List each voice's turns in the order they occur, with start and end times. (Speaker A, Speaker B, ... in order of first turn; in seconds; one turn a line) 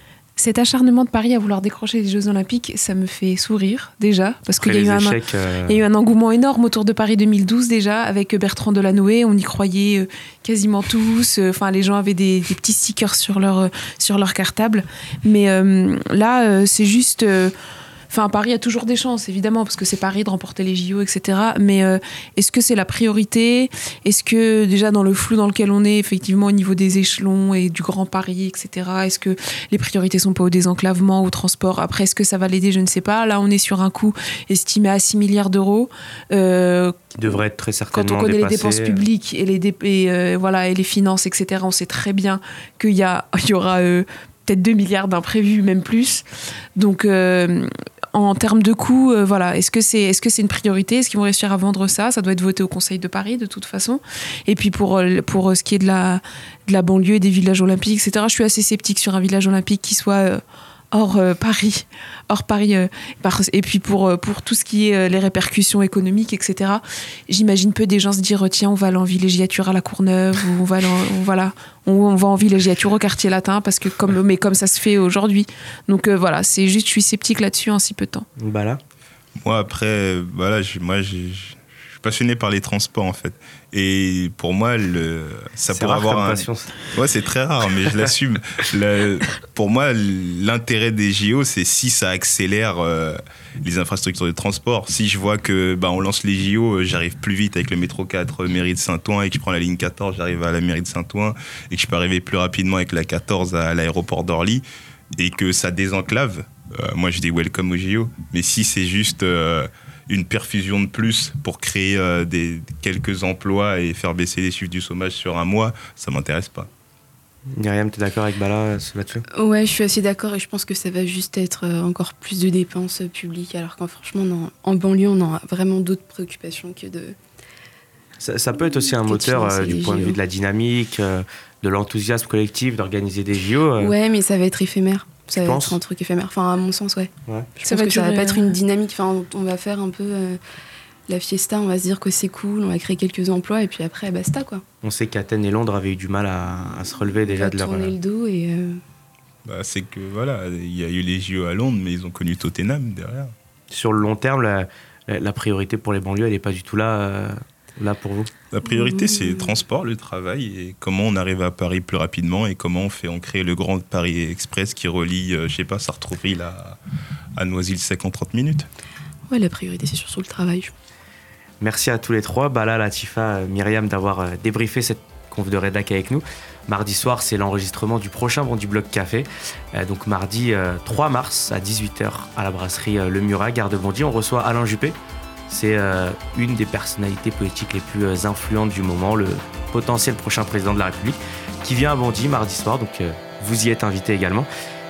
Speaker A: 0.4-17.5
Speaker B: 4.6-5.8
Speaker A: 18.1-37.4
Speaker B: 37.2-39.0
Speaker A: 37.9-46.2
Speaker A: 46.8-78.3
Speaker B: 78.4-78.8
Speaker C: 79.4-104.6
Speaker B: 85.7-86.8
Speaker C: 105.2-116.7
Speaker B: 117.5-119.2
Speaker D: 119.3-127.2
Speaker B: 128.2-133.9
Speaker D: 128.8-130.2
Speaker D: 133.8-140.4
Speaker B: 135.3-135.8
Speaker A: 137.7-138.6
Speaker D: 141.1-144.6
Speaker B: 144.8-147.9
Speaker D: 147.3-148.8
Speaker C: 149.4-153.3
Speaker B: 153.7-158.3
Speaker C: 158.5-166.8
Speaker D: 158.7-159.6
Speaker C: 167.4-168.7
Speaker D: 169.3-170.7
Speaker B: 171.6-185.0
Speaker B: 185.5-194.5